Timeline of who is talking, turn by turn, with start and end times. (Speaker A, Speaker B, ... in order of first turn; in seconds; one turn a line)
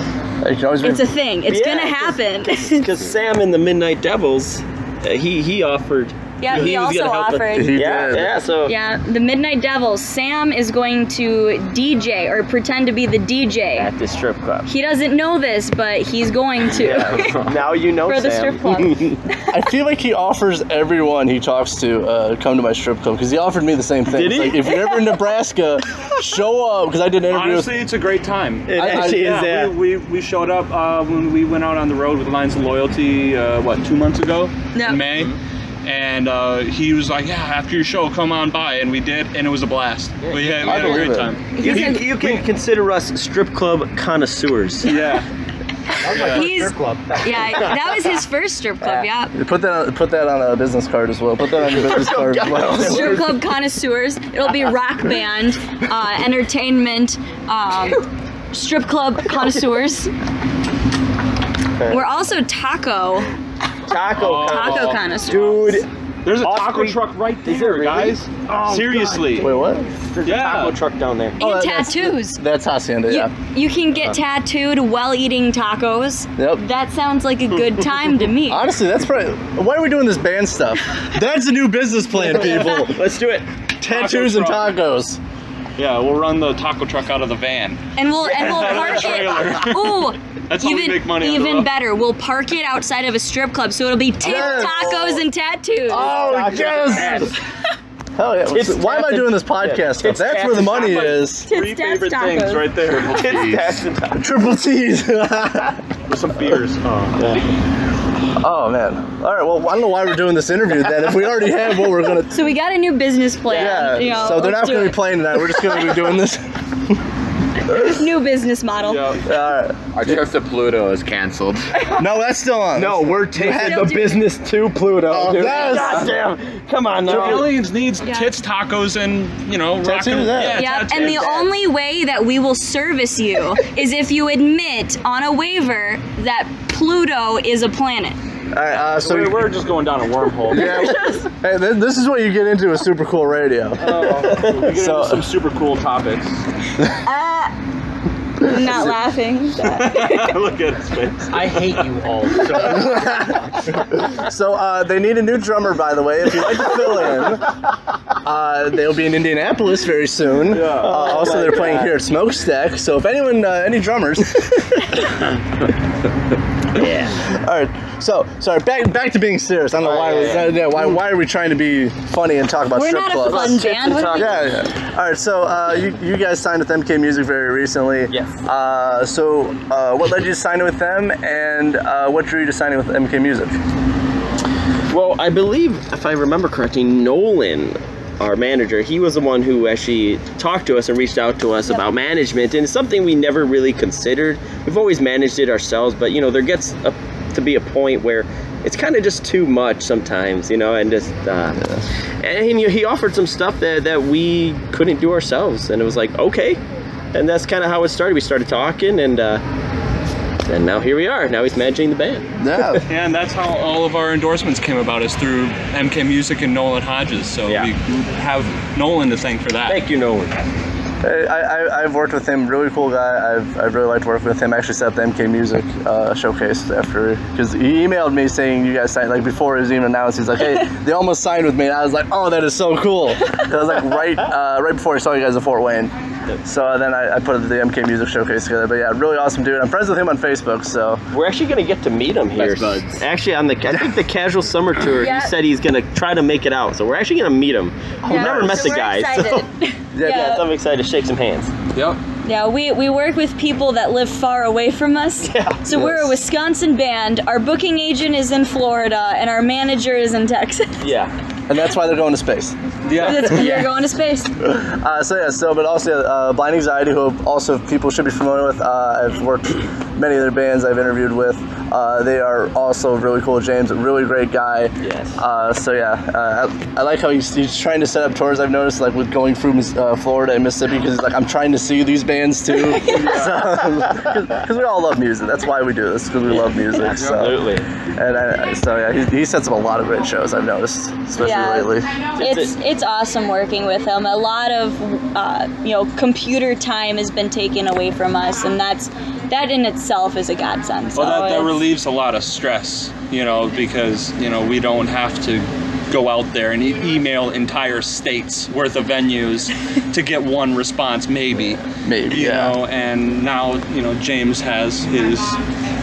Speaker A: 0.4-1.1
Speaker B: 0.8-2.9
Speaker C: 1.5-8.7
Speaker B: 6.4-13.9
Speaker A: 7.5-8.3
Speaker C: 13.8-14.7
Speaker B: 14.7-17.5
Speaker C: 16.8-19.1
Speaker B: 18.0-19.1
Speaker A: 19.5-27.7
Speaker C: 24.1-24.7
Speaker D: 27.3-42.4
Speaker C: 28.7-29.7
Speaker A: 28.7-29.3
Speaker B: 34.7-35.0
Speaker A: 40.6-41.3
Speaker C: 40.6-44.9
Speaker B: 41.5-42.0
Speaker D: 44.8-45.3
Speaker E: 46.0-47.2
Speaker D: 46.0-46.5
Speaker B: 46.3-49.3
Speaker A: 49.3-53.3
Speaker C: 51.7-53.2
Speaker B: 52.7-60.1
Speaker C: 61.8-62.0
Speaker B: 61.9-63.3
Speaker C: 63.9-65.8
Speaker D: 64.1-65.0
Speaker B: 64.3-65.8
Speaker D: 66.2-69.5
Speaker C: 66.4-69.3
Speaker A: 69.3-69.9
Speaker C: 70.1-71.4
Speaker D: 70.2-70.8
Speaker B: 71.4-72.4
Speaker A: 71.4-73.3
Speaker B: 73.1-78.6
Speaker A: 76.4-76.6
Speaker A: 78.5-83.0
Speaker C: 82.2-83.5
Speaker A: 83.8-85.2
Speaker D: 83.8-84.7
Speaker D: 85.8-87.8
Speaker B: 88.0-96.2
Speaker C: 88.2-89.5
Speaker D: 88.3-91.7
Speaker A: 94.2-95.2
Speaker C: 94.3-95.1
Speaker A: 95.9-97.3
Speaker C: 95.9-97.3
Speaker A: 98.2-101.5
Speaker C: 98.5-101.2
Speaker D: 100.9-103.6
Speaker B: 101.5-102.7
Speaker C: 102.9-104.2
Speaker F: 103.3-103.6
Speaker A: 104.1-105.8
Speaker D: 106.1-107.4
Speaker C: 107.2-107.4
Speaker A: 108.4-112.5
Speaker B: 112.3-115.0
Speaker C: 113.5-114.1
Speaker A: 113.5-116.4
Speaker B: 117.6-119.2
Speaker A: 117.7-118.0
Speaker D: 118.8-119.2
Speaker A: 119.2-120.2
Speaker F: 119.9-121.7
Speaker A: 121.9-124.1
Speaker C: 122.7-127.5
Speaker B: 123.6-124.2
Speaker A: 125.1-126.2
Speaker D: 127.0-131.4
Speaker A: 127.1-127.5
Speaker B: 128.0-128.3
Speaker A: 129.8-130.7
Speaker B: 130.6-138.2
Speaker A: 138.5-139.5
Speaker D: 138.9-140.8
Speaker A: 140.5-145.3
Speaker B: 140.6-141.2
Speaker D: 143.8-146.4
Speaker C: 144.3-144.6
Speaker B: 147.0-147.5
Speaker B: 148.4-150.3
Speaker A: 148.5-148.9
Speaker D: 149.8-151.6
Speaker E: 151.3-153.3
Speaker A: 152.8-153.3
Speaker A: 154.0-157.5
Speaker A: 158.2-164.9
Speaker D: 160.5-160.9
Speaker C: 160.6-162.0
Speaker C: 166.7-167.2
Speaker A: 167.2-183.6
Speaker C: 169.8-170.6
Speaker B: 172.7-174.4
Speaker C: 173.2-174.6
Speaker C: 178.1-178.4
Speaker C: 184.9-201.7
Speaker C: 202.2-206.6
Speaker C: 207.1-209.4
Speaker C: 210.4-212.3
Speaker A: 212.4-212.8
Speaker D: 212.8-219.8
Speaker C: 219.7-220.4
Speaker A: 221.0-235.9
Speaker A: 236.4-241.0
Speaker C: 241.1-249.4
Speaker F: 242.4-243.0
Speaker A: 243.7-244.0
Speaker B: 245.0-245.3
Speaker A: 248.0-248.7
Speaker B: 248.1-250.5
Speaker A: 249.9-250.4
Speaker C: 250.0-251.5
Speaker B: 252.2-260.9
Speaker C: 255.2-255.6
Speaker A: 255.7-256.1
Speaker C: 260.8-261.1
Speaker A: 261.5-262.5
Speaker D: 262.9-263.4
Speaker B: 263.0-264.3
Speaker C: 263.2-263.7
Speaker A: 264.4-291.9
Speaker C: 274.8-275.2
Speaker B: 282.8-283.1
Speaker C: 286.7-287.6
Speaker B: 291.2-301.6
Speaker C: 292.2-292.5
Speaker D: 300.9-315.4
Speaker A: 311.8-312.6